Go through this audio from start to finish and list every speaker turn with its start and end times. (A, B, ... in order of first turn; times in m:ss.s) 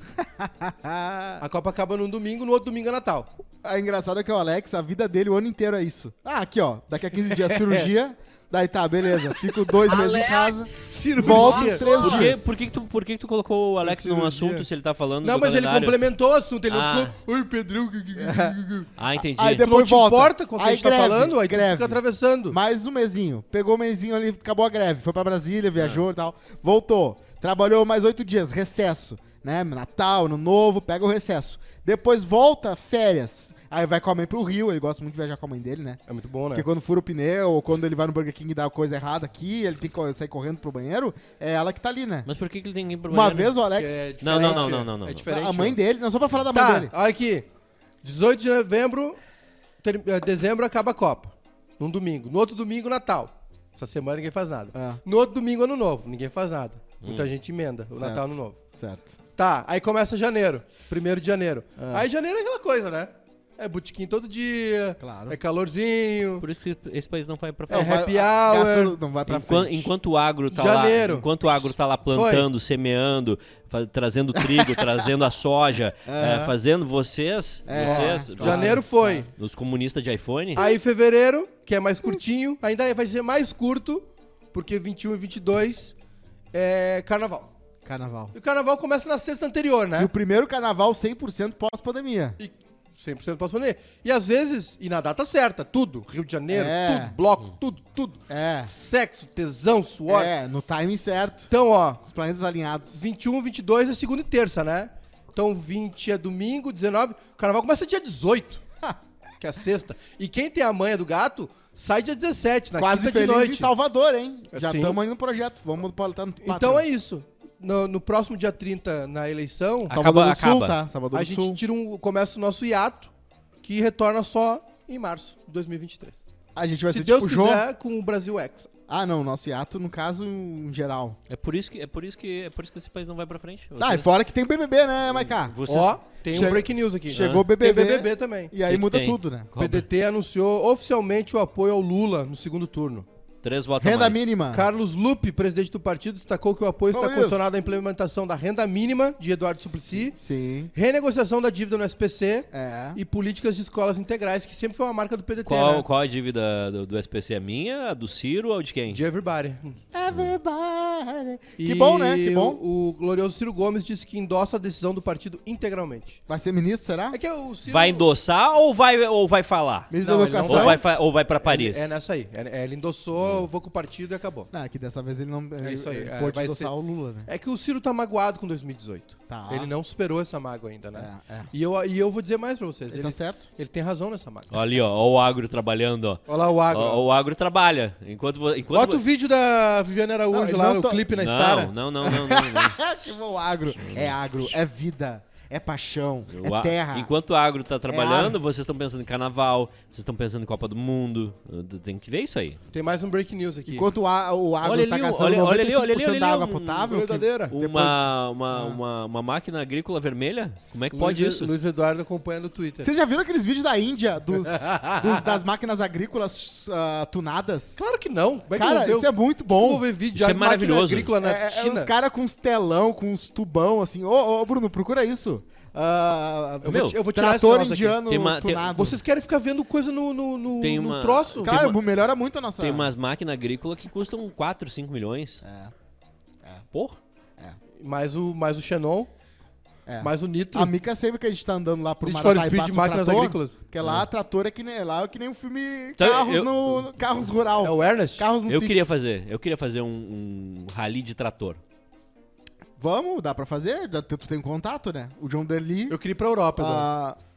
0:00.2-0:01.4 A
0:01.4-0:03.3 B
0:03.6-0:12.5 A
0:07.3-0:07.9 B
0:09.2-0:12.4 B
0:11.3-0:16.1 C
0:13.8-0:14.7 B
0:15.2-0:18.9 B
0:16.7-0:17.1 C
0:18.2-0:18.6 A
0:19.0-0:19.7 C
0:19.2-0:36.0 A
0:19.6-0:22.6 B
0:25.8-0:26.0 C
0:36.1-0:36.6 B
0:36.5-0:42.3 A
0:42.2-0:43.6 C
0:43.1-0:46.9 A
0:43.7-0:45.8 B
0:44.2-0:45.2 C
0:46.5-0:47.4 B
0:48.0-0:49.2 B
0:49.8-0:58.6 B
0:54.7-0:55.0 A
0:57.9-0:59.2 A
0:59.4-1:06.4 B
1:01.8-1:02.0 A
1:05.0-1:05.4 A
1:06.4-1:08.0 C
1:07.7-1:09.0 B
1:07.7-1:09.9 A
1:09.3-1:20.7 C
1:10.5-1:11.3 B
1:12.1-1:12.5 B
1:14.5-1:14.8 A
1:16.0-1:16.5 A
1:17.7-1:19.2 A
1:17.7-1:19.3 B
1:20.5-1:25.9 B
1:26.5-1:27.5 B
1:27.8-1:28.3 A
1:28.3-1:30.1 B
1:30.0-1:32.4 A
1:32.4-1:40.3 B
1:36.5-1:37.2 A
1:38.3-1:38.7 A
1:40.1-1:41.5 A
1:41.5-1:42.0 B
1:42.0-1:43.1 A
1:42.9-1:48.6 B
1:49.4-1:53.7 B
1:52.8-1:56.8 A
1:54.5-1:55.0 B
1:56.4-2:00.0 B
1:59.9-2:00.8 C
1:59.9-2:01.6 A
2:01.1-2:03.1 B
2:03.6-2:06.2 B
2:06.5-2:07.6 A
2:06.9-2:08.7 B
2:08.9-2:11.2 A
2:11.3-2:14.1 C
2:13.8-2:19.5 A
2:15.4-2:15.9 C
2:15.6-2:18.5 B
2:17.1-2:17.4 C
2:18.6-2:19.8 C
2:19.6-2:23.0 B
2:23.4-2:24.2 C
2:23.8-2:24.7 A
2:24.5-2:30.2 B
2:26.9-2:27.4 A
2:30.1-2:30.7 A
2:30.7-2:35.8 B
2:32.5-2:33.0 A
2:35.4-2:39.0 C
2:38.9-2:39.8 B
2:39.9-2:42.6 A
2:41.6-2:46.2 B
2:46.3-2:47.2 A
2:47.1-2:48.1 B
2:47.6-2:49.9 C
2:49.9-2:50.8 A
2:50.0-2:50.8 B
2:50.4-2:51.9 C
2:51.4-2:54.5 B
2:54.5-2:57.3 A
2:55.6-3:04.5 B
2:59.3-2:59.7 A
3:00.9-3:01.5 A
3:02.9-3:03.4 A
3:04.5-3:09.0 C
3:06.3-3:07.0 B
3:08.7-3:12.1 B
3:10.3-3:11.1 A
3:11.1-3:12.8 C
3:12.0-3:17.1 A
3:13.8-3:14.1 C
3:16.3-3:22.6 C
3:17.9-3:18.4 A
3:22.7-3:23.9 B
3:23.7-3:28.0 A
3:24.6-3:26.9 C
3:26.9-3:27.5 B
3:27.5-3:31.5 C
3:28.5-3:28.8 A
3:30.9-3:32.9 B
3:32.8-3:37.8 A
3:34.4-3:35.4 B
3:37.8-3:41.9 B
3:38.5-3:39.8 A
3:40.1-3:41.1 C
3:41.2-3:49.0 A
3:46.6-3:48.0 B
3:46.6-3:47.0 C
3:48.0-3:48.7 C
3:48.7-3:51.6 B
3:50.6-3:51.8 C
3:51.4-3:52.9 A
3:52.6-3:55.4 C
3:55.4-3:55.7 A
3:56.7-3:57.0 C
3:57.8-3:59.1 B
3:59.9-4:08.9 A
4:00.0-4:00.7 B
4:02.0-4:03.6 B
4:06.0-4:06.8 C
4:07.6-4:08.3 B
4:08.5-4:11.6 C
4:12.8-4:16.0 A
4:15.9-4:16.9 B
4:16.6-4:17.2 A